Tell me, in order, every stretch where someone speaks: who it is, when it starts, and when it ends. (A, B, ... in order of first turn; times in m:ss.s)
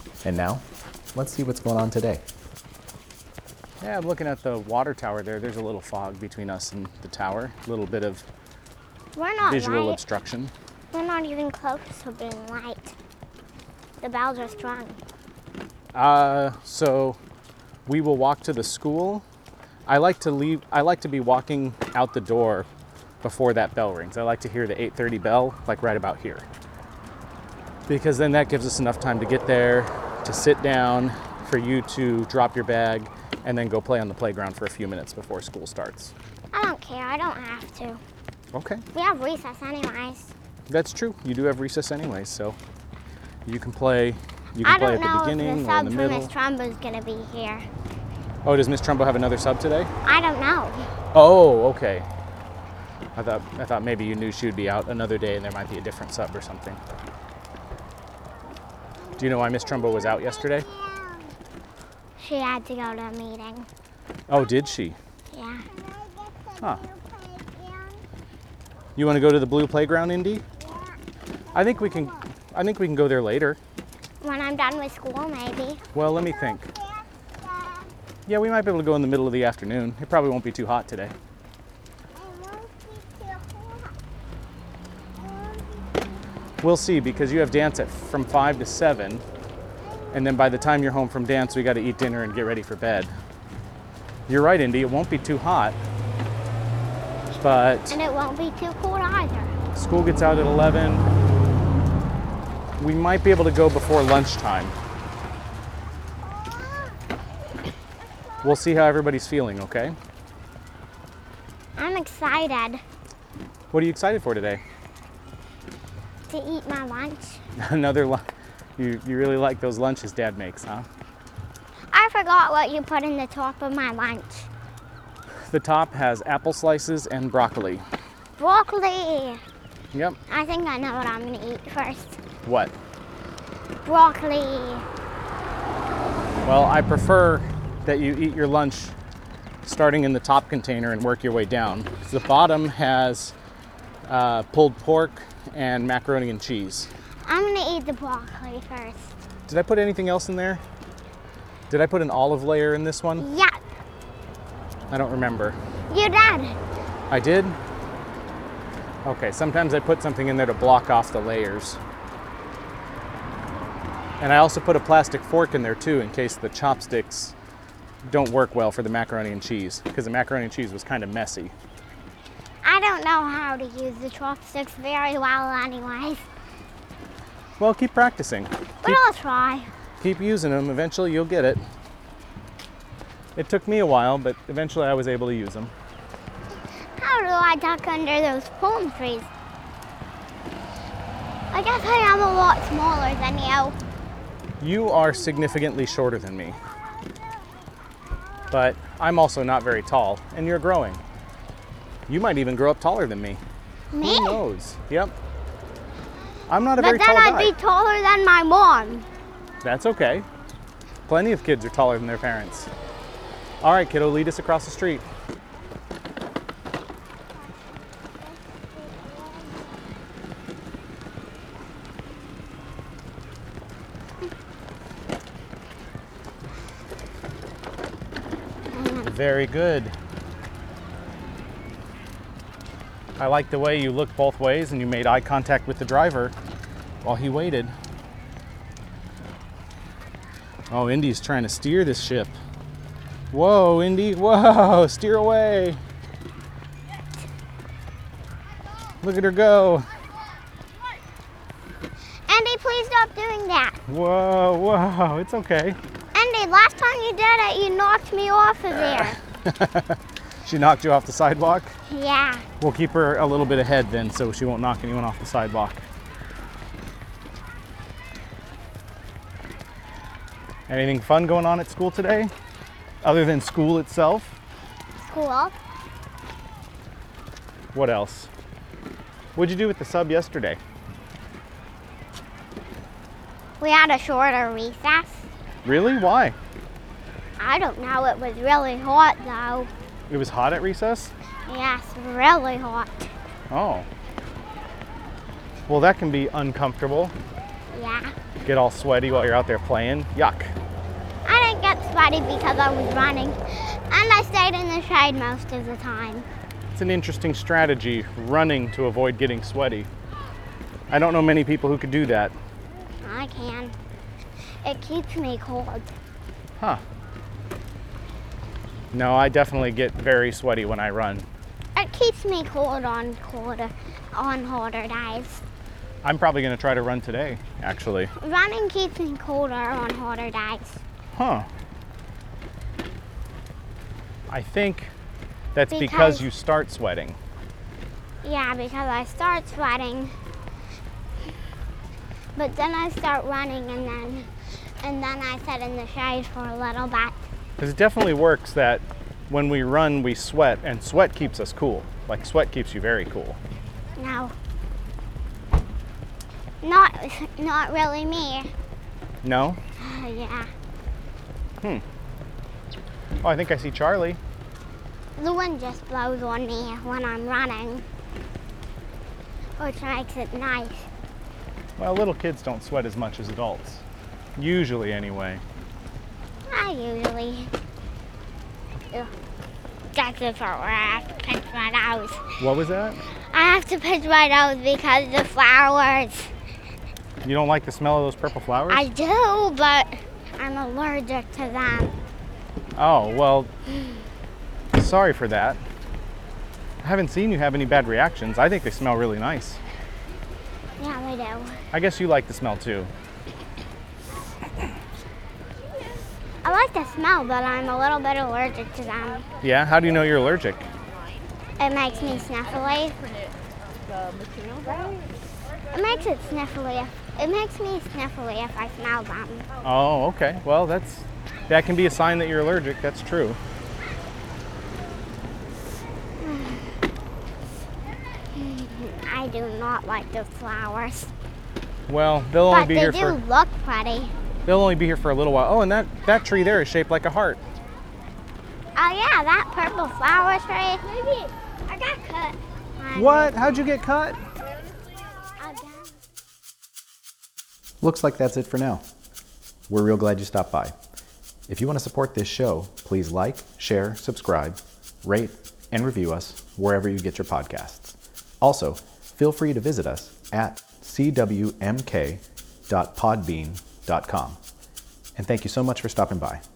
0:00.2-0:02.2 A
0:03.8-0:08.2 B
0:09.2-0:10.0 C
0:09.4-0:10.5 B
0:10.9-0:12.9 C
0:14.0-0:15.0 C
0:15.9-0:17.2 B
0:17.8-0:19.2 B
0:19.9-0:22.7 B
0:23.2-0:26.4 B
0:27.9-0:36.1 B
0:36.5-0:38.0 C
0:38.5-0:38.8 B
0:38.9-0:40.3 C
0:40.7-0:42.6 B
0:43.4-0:46.3 B
0:44.6-0:47.6 C
0:48.4-0:49.9 B
0:50.0-0:50.9 C
0:51.1-0:52.1 B
0:53.2-0:56.8 B
0:59.2-1:00.7 B
0:59.2-1:01.3 C
1:02.2-1:03.7 C
1:04.3-1:05.0 B
1:05.3-1:08.0 C
1:09.0-1:10.4 B
1:11.5-1:13.6 B
1:14.2-1:15.8 C
1:15.9-1:16.7 B
1:18.2-1:21.1 B
1:22.2-1:23.9 C
1:25.4-1:25.7 C
1:26.6-1:29.2 B
1:30.1-1:33.1 B
1:34.3-1:35.8 B
1:37.3-1:38.0 B
1:37.9-1:39.5 C
1:39.7-1:41.0 B
1:42.8-1:44.7 B
1:48.4-1:50.0 B
1:51.8-1:52.8 C
1:53.7-1:54.6 B
1:56.3-1:57.4 C
1:57.6-1:58.2 B
1:58.8-2:00.9 B
2:01.9-2:04.5 C
2:05.5-2:07.8 B
2:08.4-2:09.4 C
2:10.3-2:12.2 C
2:12.4-2:12.7 B
2:13.8-2:14.8 C
2:16.4-2:18.9 B
2:19.6-2:23.3 B
2:24.1-2:26.9 B
2:27.2-2:29.1 C
2:29.5-2:30.6 B
2:31.7-2:33.3 B
2:33.2-2:33.5 C
2:34.9-2:35.6 B
2:35.9-2:36.6 C
2:37.1-2:37.6 B
2:39.0-2:41.8 B
2:44.2-2:47.3 B
2:48.0-2:51.5 B
2:52.6-2:56.2 C
2:57.6-2:59.0 B
2:58.8-2:59.7 C
3:00.0-3:01.6 B
3:03.4-3:05.7 B
3:07.0-3:09.3 C
3:11.5-3:13.8 C
3:14.6-3:16.6 B
3:18.5-3:21.0 B
3:22.1-3:23.4 B
3:23.9-3:24.4 C
3:24.0-3:25.1 B
3:26.5-3:27.5 B
3:26.8-3:29.0 C
3:29.6-3:30.2 B
3:31.1-3:32.7 B
3:33.6-3:35.0 B
3:48.7-3:49.1 C
3:49.0-3:49.9 B
3:53.2-3:56.3 B
3:57.0-3:57.7 B
4:00.7-4:02.3 B
4:03.3-4:05.8 B
4:09.0-4:09.8 B
4:12.3-4:13.8 C
4:13.9-4:15.8 B
4:16.1-4:19.2 C
4:18.8-4:21.7 B
4:21.9-4:22.4 C
4:22.6-4:25.8 B
4:30.7-4:32.3 B
4:33.0-4:34.4 B
4:35.0-4:35.5 C
4:37.7-4:38.3 B
4:39.4-4:40.6 B
4:43.6-4:45.3 C
4:45.6-4:46.4 B
4:47.4-4:49.7 C
4:50.1-4:51.1 B
4:51.5-4:53.1 C
4:53.5-4:53.9 B
4:55.7-4:57.1 B
4:57.7-4:58.1 C
4:58.4-5:00.6 B
5:01.2-5:03.4 C
5:03.9-5:06.3 C
5:06.7-5:09.9 B
5:10.9-5:12.3 B
5:13.0-5:13.7 C
5:14.6-5:15.9 C
5:18.9-5:21.3 B
5:21.8-5:25.4 C
5:26.0-5:28.1 B
5:28.2-5:30.8 C
5:31.1-5:31.5 B
5:34.3-5:34.9 B
5:35.5-5:37.2 B
5:35.7-5:36.3 C
5:38.2-5:40.1 C
5:42.4-5:44.3 C
5:44.8-5:47.1 C
5:47.6-5:53.4 B
5:54.0-5:54.3 C
5:56.6-5:58.5 C
5:59.2-5:59.6 B
5:59.8-6:00.5 C
6:03.2-6:04.2 B
6:05.2-6:07.8 C
6:09.6-6:10.9 C
6:11.8-6:13.8 B
6:14.4-6:15.4 B
6:16.5-6:17.5 C
6:19.9-6:22.2 C
6:22.4-6:23.0 B
6:23.3-6:26.3 C
6:27.2-6:28.9 B
6:28.7-6:31.9 C
6:32.8-6:33.5 B
6:34.7-6:35.6 B
6:36.8-6:39.6 B
6:40.8-6:41.5 C
6:41.7-6:42.9 B
6:46.4-6:49.2 C
6:49.4-6:50.6 B
6:51.6-6:53.0 C
6:55.7-6:59.5 C
6:59.6-7:03.4 B
7:06.2-7:06.6 C
7:08.3-7:11.1 C
7:11.9-7:13.2 B
7:12.5-7:14.1 C
7:14.4-7:17.4 B
7:18.8-7:23.7 C
7:22.9-7:24.2 B
7:25.4-7:25.9 C
7:27.8-7:28.8 A
7:29.7-7:30.7 A
7:31.5-7:37.9 A
7:36.5-7:37.0 B
7:38.4-7:44.4 A
7:43.0-7:44.3 B
7:45.2-7:46.4 A
7:45.2-7:45.9 B